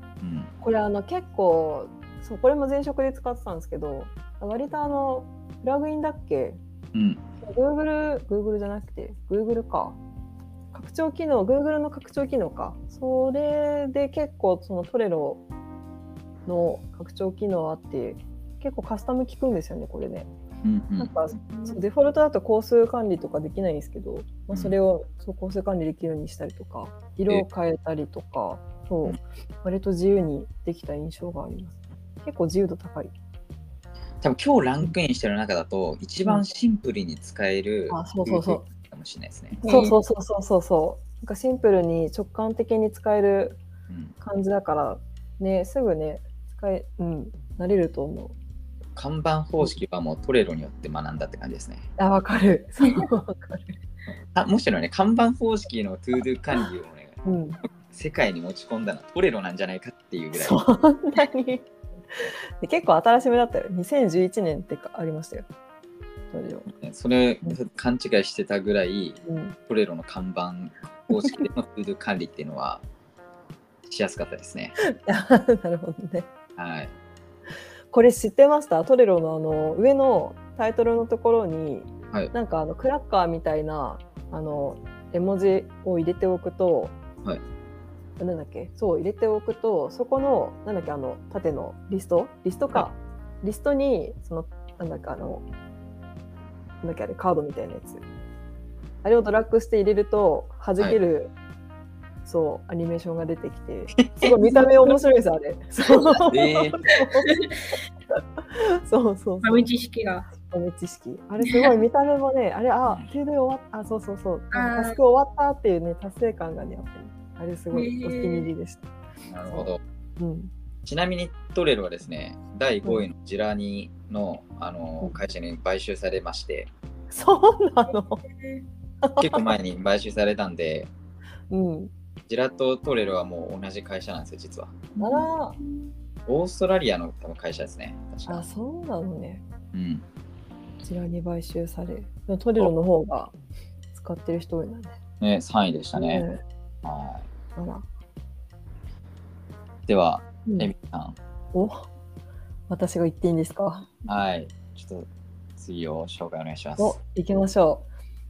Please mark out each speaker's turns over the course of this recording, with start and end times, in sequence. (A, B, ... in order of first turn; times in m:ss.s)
0:00.2-0:00.5 A
0:00.6-0:06.6 B
0:06.9-0:07.2 A
0:07.4-0:10.0 B
0:10.7-0:15.4 B
0:16.5-0:20.3 B
0:20.6-0:21.1 A
0:21.0-0:33.1 B
0:21.5-0:21.8 C
0:34.2-0:39.6 A
0:37.9-0:38.6 B
0:39.6-0:40.0 C
0:39.6-0:43.6 B
0:43.9-0:44.1 A
0:44.2-0:48.3 B
0:49.0-0:51.8 A
0:52.0-0:53.7 B
0:54.3-0:57.2 A
0:57.2-0:57.6 B
0:57.8-1:00.6 A
1:00.3-1:05.4 B
1:06.3-1:06.7 B
1:06.7-1:12.8 A
1:09.2-1:09.6 B
1:13.8-1:14.7 A
1:14.8-1:16.3 B
1:16.6-1:16.9 A
1:17.9-1:26.9 B
1:28.2-1:35.4 B
1:36.8-1:38.0 B
1:39.0-1:41.3 B
1:42.2-1:47.3 B
1:46.3-1:46.8 A
1:47.2-1:47.5 C
1:48.5-1:49.7 B
1:49.4-1:50.3 C
1:50.3-1:58.9 B
1:51.4-1:51.7 C
1:54.5-1:55.0 C
1:57.7-1:58.5 C
1:59.3-1:59.8 A
1:59.5-2:00.5 B
2:00.8-2:06.7 A
2:07.1-2:08.2 B
2:08.2-2:08.6 C
2:09.0-2:09.4 B
2:09.2-2:10.9 A
2:11.5-2:11.9 B
2:12.3-2:14.8 A
2:14.9-2:15.9 C
2:15.0-2:15.6 B
2:16.3-2:18.4 A
2:18.3-2:19.4 B
2:19.7-2:20.0 A
2:20.8-2:23.3 B
2:23.9-2:25.0 B
2:25.2-2:26.2 A
2:26.0-2:26.4 B
2:26.8-2:27.2 A
2:27.6-2:27.8 B
2:29.9-2:31.2 A
2:30.4-2:30.7 B
2:31.5-2:31.9 B
2:32.7-2:33.9 B
2:34.1-2:37.0 A
2:36.8-2:37.8 B